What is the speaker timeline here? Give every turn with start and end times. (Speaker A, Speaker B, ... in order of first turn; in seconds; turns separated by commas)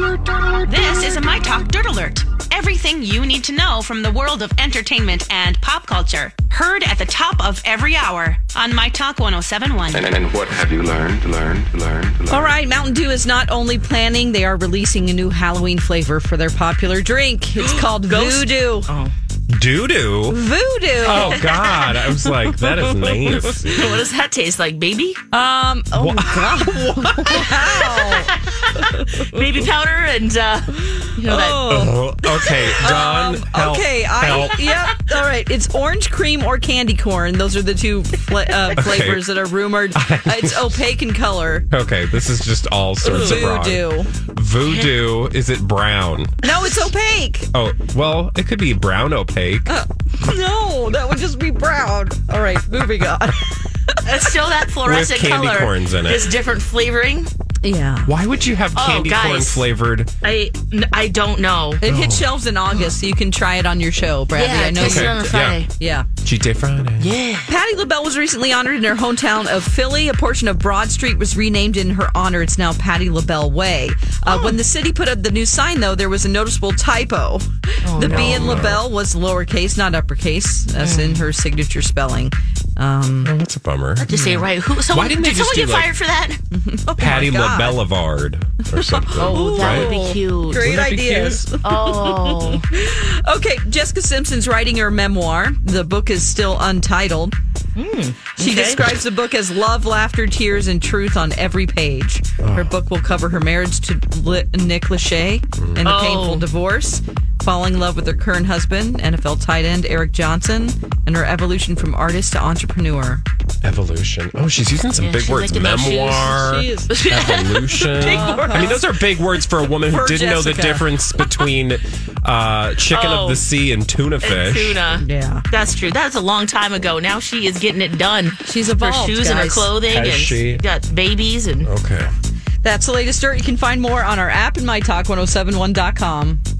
Speaker A: 0.6-10.1, Speaker B: 9.9-12.5, Speaker C: 12.3-18.9, Speaker D: 17.6-19.1, Speaker E: 19.5-20.4, Speaker C: 20.3-21.5, Speaker E: 21.0-24.0, Speaker D: 21.0-25.2, Speaker C: 25.3-29.4, Speaker E: 25.9-27.6, Speaker D: 27.4-31.9, Speaker C: 31.2-41.7, Speaker E: 31.5-34.9, Speaker E: 38.8-39.3, Speaker E: 39.9-40.8, Speaker E: 41.7-46.4, Speaker C: 43.0-44.1, Speaker C: 46.4-47.5, Speaker E: 47.5-49.7, Speaker C: 49.7-54.0, Speaker D: 54.0-57.3, Speaker E: 54.8-56.3, Speaker C: 57.6-58.1, Speaker E: 58.0-60.1, Speaker D: 58.7-59.7, Speaker D: 60.2-61.8, Speaker C: 61.8-66.1, Speaker E: 61.8-62.3, Speaker D: 64.3-65.7, Speaker E: 64.8-65.6, Speaker E: 66.2-67.1, Speaker D: 67.0-67.5, Speaker C: 67.5-83.3, Speaker D: 74.2-74.6, Speaker D: 77.8-78.7, Speaker E: 78.0-78.8, Speaker D: 80.8-81.3, Speaker E: 83.2-85.9, Speaker D: 84.0-86.4, Speaker C: 86.5-87.8, Speaker E: 87.0-89.9, Speaker C: 88.7-97.3, Speaker D: 89.2-90.7, Speaker E: 90.5-91.5, Speaker D: 91.6-92.7, Speaker D: 97.8-98.9, Speaker C: 98.4-113.2, Speaker E: 102.4-102.7, Speaker E: 105.6-105.9, Speaker D: 105.8-106.5, Speaker E: 113.6-124.8, Speaker D: 115.0-116.3, Speaker C: 116.2-116.9, Speaker D: 116.9-118.8, Speaker C: 118.0-118.8, Speaker C: 119.8-121.0, Speaker D: 122.9-123.5, Speaker D: 124.2-131.7, Speaker C: 125.0-125.4, Speaker C: 128.4-129.7, Speaker E: 129.9-130.6, Speaker E: 131.6-132.1, Speaker C: 132.6-136.4